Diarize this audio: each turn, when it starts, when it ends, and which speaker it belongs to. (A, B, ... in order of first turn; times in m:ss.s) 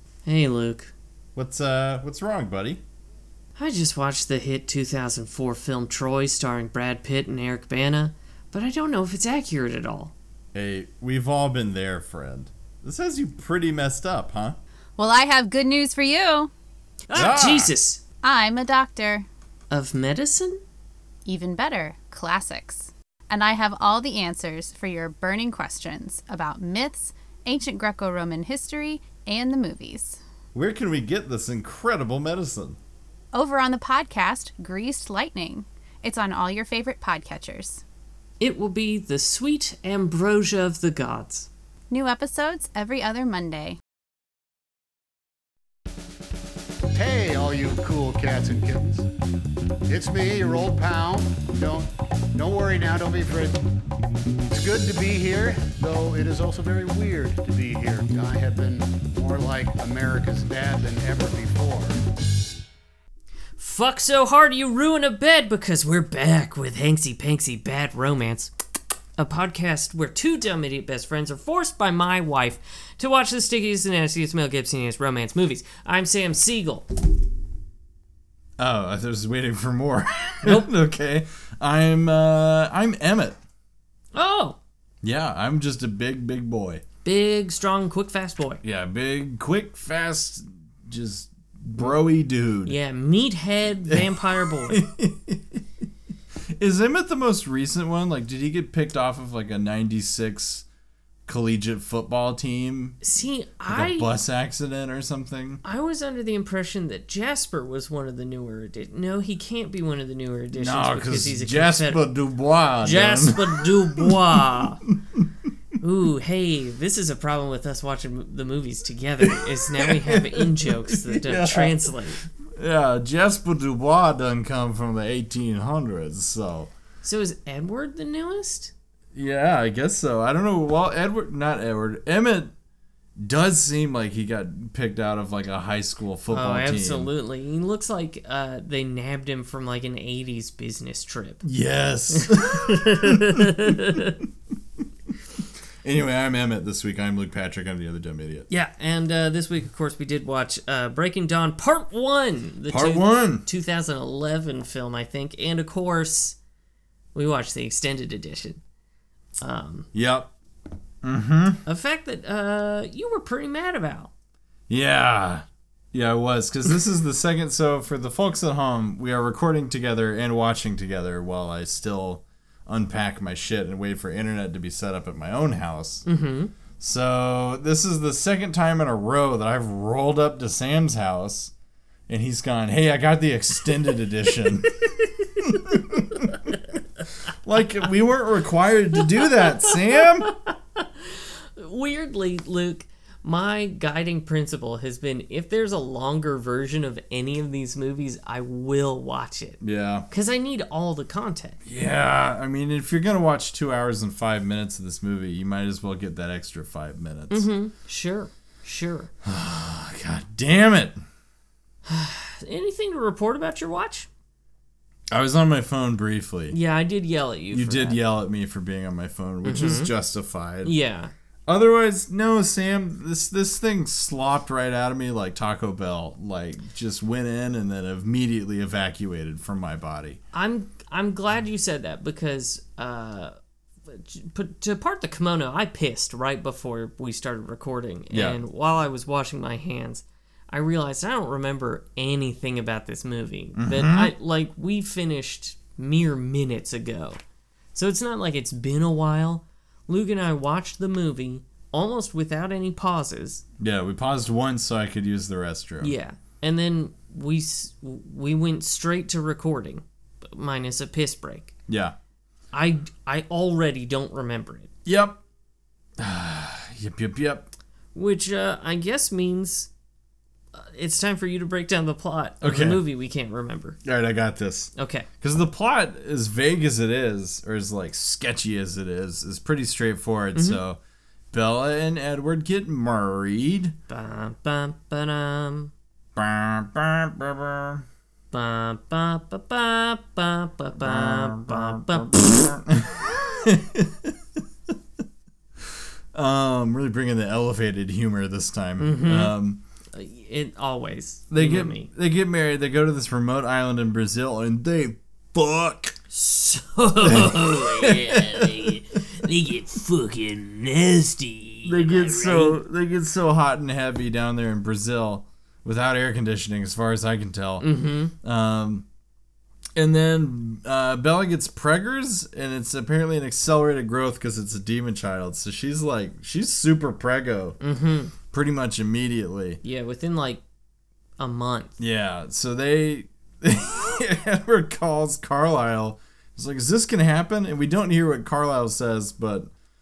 0:00.2-0:00.9 A
0:01.4-0:02.8 B
0:03.6-0:10.1 A
0:10.5-0:14.6 B
0:15.0-0:16.5 C
0:17.1-0:18.0 A
0:17.1-0:17.7 B
0:18.2-0:19.2 C
0:19.7-0:20.6 A
0:21.2-0:30.2 C
0:30.5-0:32.8 B
0:33.3-0:37.8 C
0:38.4-0:41.5 A
0:41.9-0:43.8 C
0:46.9-0:49.1 D
0:49.9-0:53.6 D
0:54.5-1:02.0 D
1:03.6-1:08.5 A
1:09.2-1:16.8 A
1:18.6-1:23.4 B
1:24.1-1:24.6 A
1:25.0-1:26.8 B
1:27.0-1:28.6 A
1:28.6-1:32.8 B
1:32.6-1:34.8 A
1:33.9-1:35.6 B
1:36.6-1:40.6 B
1:41.3-1:43.0 B
1:43.0-1:44.1 A
1:43.7-1:45.6 B
1:45.6-1:52.0 A
1:50.5-1:55.2 B
1:52.8-1:54.8 A
1:55.8-2:02.2 A
1:59.2-2:06.7 B
2:07.0-2:08.7 A
2:09.1-2:12.5 B
2:13.2-2:17.1 B
2:16.3-2:21.4 A
2:21.4-2:24.0 B
2:22.1-2:24.2 A
2:25.8-2:28.5 B
2:28.5-2:36.4 A
2:32.7-2:33.4 B
2:37.1-2:38.6 A
2:39.4-2:39.9 A
2:39.9-2:40.3 B
2:41.0-2:41.6 B
2:41.6-2:44.1 A
2:44.7-2:56.0 B
2:56.0-2:56.5 A
2:56.8-3:01.5 B
3:02.1-3:06.5 B
3:07.4-3:10.3 B
3:09.4-3:21.6 A
3:19.6-3:20.1 B
3:21.6-3:27.5 B
3:27.3-3:29.1 A
3:29.2-3:31.0 B
3:31.8-3:34.1 A
3:35.1-3:36.6 B
3:36.5-3:38.0 A
3:37.5-3:40.7 B
3:39.4-3:39.9 A
3:40.6-3:41.1 A
3:41.5-3:50.2 B
3:50.3-3:53.3 A
3:53.9-4:07.2 A
3:58.1-3:58.4 B
4:03.6-4:04.1 B
4:07.7-4:13.4 A
4:13.6-4:15.9 B
4:15.8-4:21.5 A
4:21.7-4:22.0 B
4:22.5-4:24.7 A
4:24.8-4:25.2 B
4:26.0-4:27.5 B
4:27.9-4:29.7 A
4:30.5-4:33.8 A
4:32.4-4:32.8 B
4:33.8-4:40.8 B
4:34.8-4:35.1 A
4:40.3-4:40.6 A
4:41.3-4:43.7 B
4:43.9-4:45.7 A
4:46.2-4:47.8 B
4:48.3-4:52.5 A
4:50.8-4:54.4 B
4:55.6-4:59.6 B
4:58.8-4:59.3 A
4:59.9-5:01.9 A
5:01.3-5:06.0 B
5:06.1-5:12.6 A
5:07.0-5:08.7 B
5:11.6-5:17.7 B
5:17.6-5:18.1 A
5:18.2-5:18.8 B
5:19.7-5:27.6 B
5:27.6-5:28.1 A
5:28.3-5:29.6 B
5:29.6-5:30.4 A
5:31.2-5:31.8 A
5:31.8-5:39.5 B